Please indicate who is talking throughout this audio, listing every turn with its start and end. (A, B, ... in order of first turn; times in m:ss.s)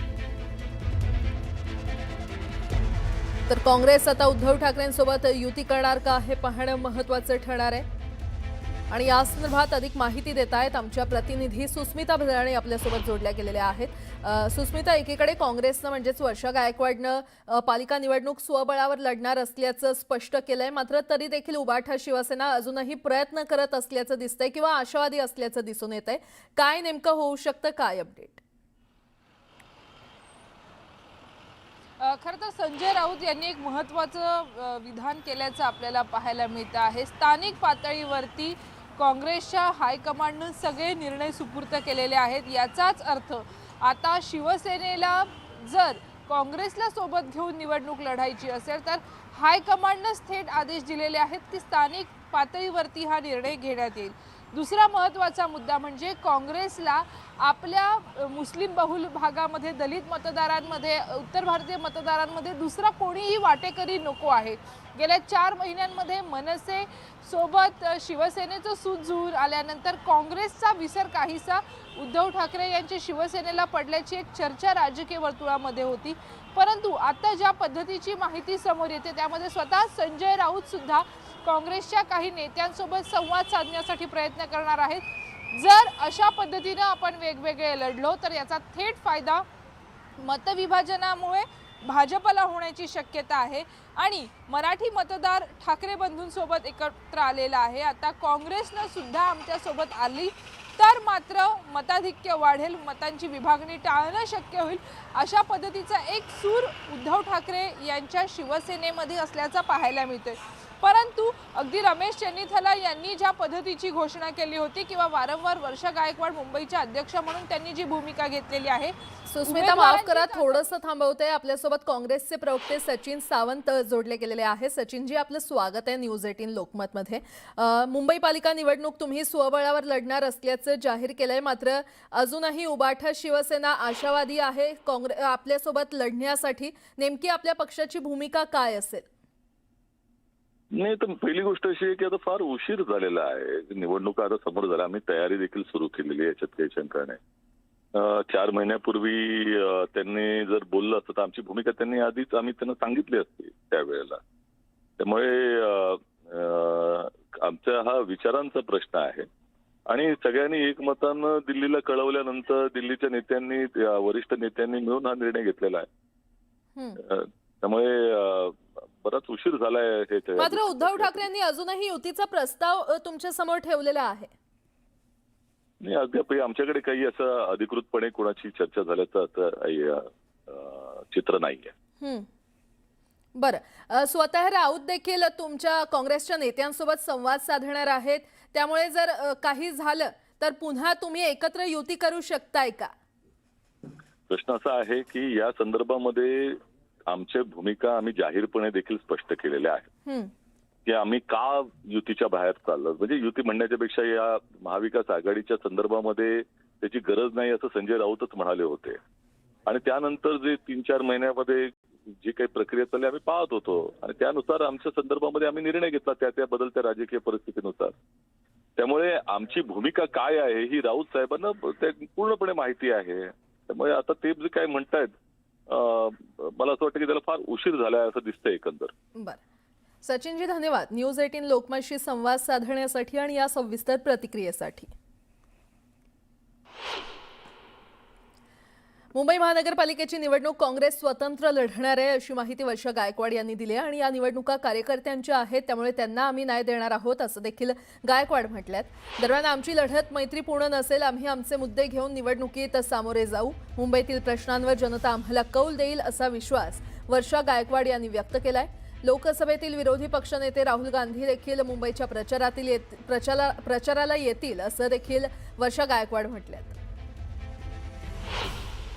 0:03.5-0:07.9 A
0:08.9-0:28.4 A
0:32.0-1:29.4 B
1:30.2-2:00.7 B
1:59.3-2:19.1 A
2:20.8-2:27.2 C
2:27.9-2:34.2 C
2:35.0-2:39.3 C
2:39.9-2:45.9 C
2:46.8-2:47.0 A
2:47.0-2:51.3 C
2:50.4-2:54.3 A
2:55.8-3:01.7 C
3:02.0-3:02.3 A
3:03.4-3:12.9 A
3:14.3-3:16.6 C
3:17.1-3:19.9 C
3:20.1-3:20.3 A
3:20.9-3:29.0 C
3:29.7-3:31.7 C
3:32.2-3:37.9 C
3:38.8-3:45.1 C
3:45.7-3:48.9 C
3:49.2-3:49.4 A
3:50.0-3:54.9 A
3:59.1-4:26.8 A